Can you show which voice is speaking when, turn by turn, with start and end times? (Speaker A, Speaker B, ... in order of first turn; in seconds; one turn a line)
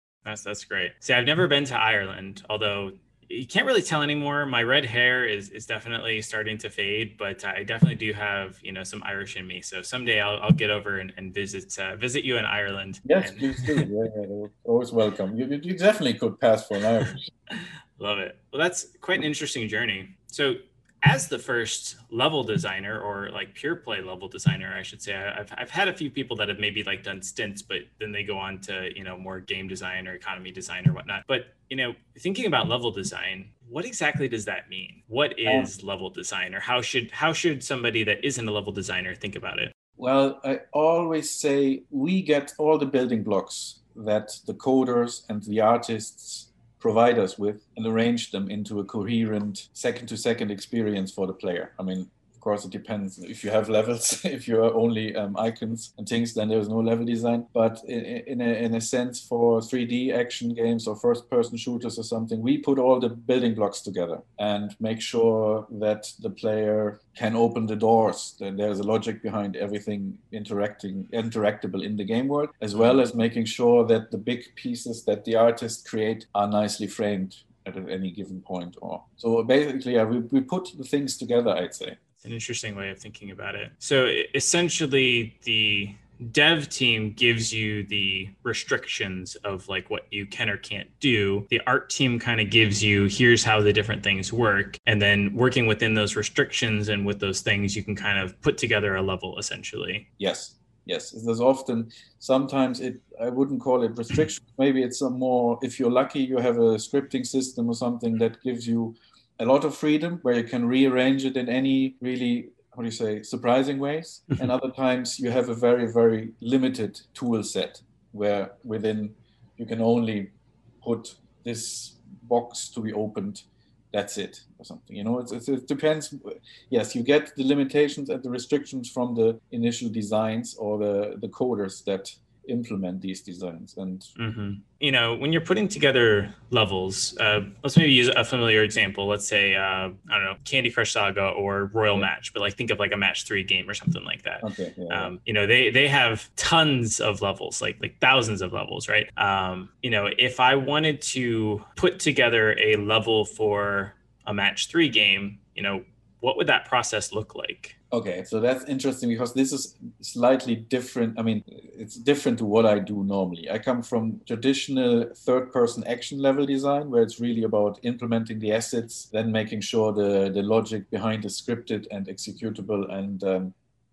Speaker A: 0.2-13.8
Speaker B: 13.1-17.3
Speaker A: 17.5-39.7
Speaker B: 35.5-35.7
Speaker B: 40.0-82.0
Speaker A: 82.2-100.1
Speaker B: 100.2-120.3
Speaker B: 120.8-134.1
Speaker A: 134.2-157.8
Speaker B: 144.4-145.1
Speaker B: 157.9-173.5